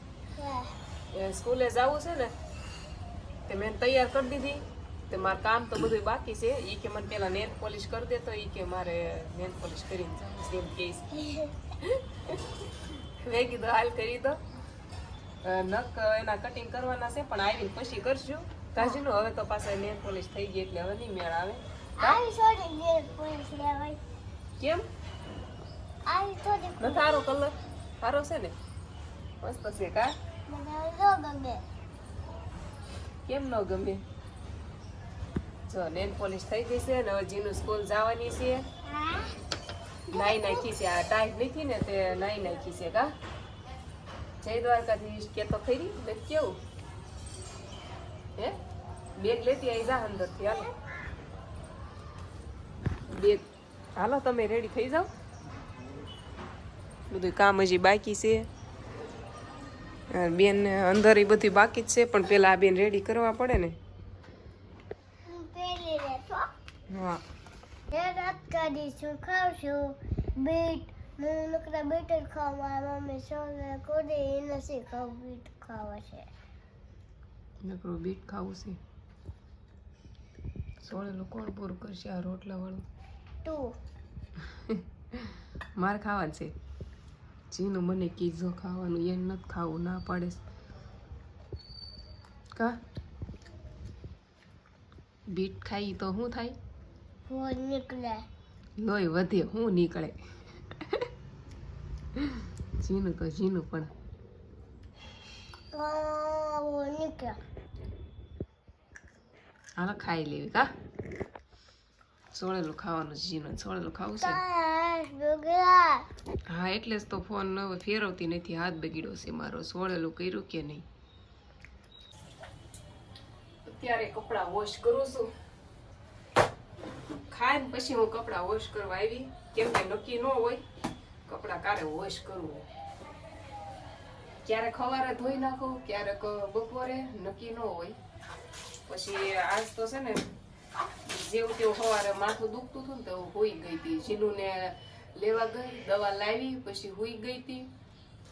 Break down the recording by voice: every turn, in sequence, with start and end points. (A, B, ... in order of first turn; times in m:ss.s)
0:00.4-0:00.7 A
0:01.1-0:02.3 B
0:03.5-0:14.4 B
0:11.2-0:11.5 A
0:15.4-0:22.2 B
0:22.0-0:24.0 A
0:24.6-0:24.8 B
0:26.0-0:27.3 A
0:26.8-0:28.5 B
0:29.4-0:30.1 B
0:30.5-0:31.6 A
0:33.2-0:34.0 B
0:35.7-0:38.6 B
0:38.8-0:39.4 A
0:40.1-0:43.1 B
0:40.1-0:40.6 A
0:44.4-0:46.6 B
0:49.2-0:50.7 B
0:53.1-0:55.1 B
0:57.1-0:58.5 B
1:00.1-1:03.8 B
1:05.3-1:06.5 A
1:06.9-1:07.2 B
1:07.9-1:16.3 A
1:17.6-1:18.8 B
1:20.8-1:22.8 B
1:23.4-1:23.8 A
1:24.5-1:26.5 B
1:27.5-1:30.4 B
1:32.5-1:32.8 B
1:35.3-1:36.6 B
1:37.3-1:38.2 A
1:38.8-1:40.2 B
1:40.8-1:41.1 B
1:42.2-1:43.9 B
1:45.7-1:47.4 A
1:49.8-1:50.7 B
1:52.3-1:54.4 B
1:54.2-1:56.1 A
1:56.5-2:00.8 B
2:03.6-2:05.3 B
2:07.3-2:10.6 B
2:11.2-2:12.6 B
2:14.4-2:18.0 B
2:18.8-2:20.3 B
2:21.0-2:27.7 B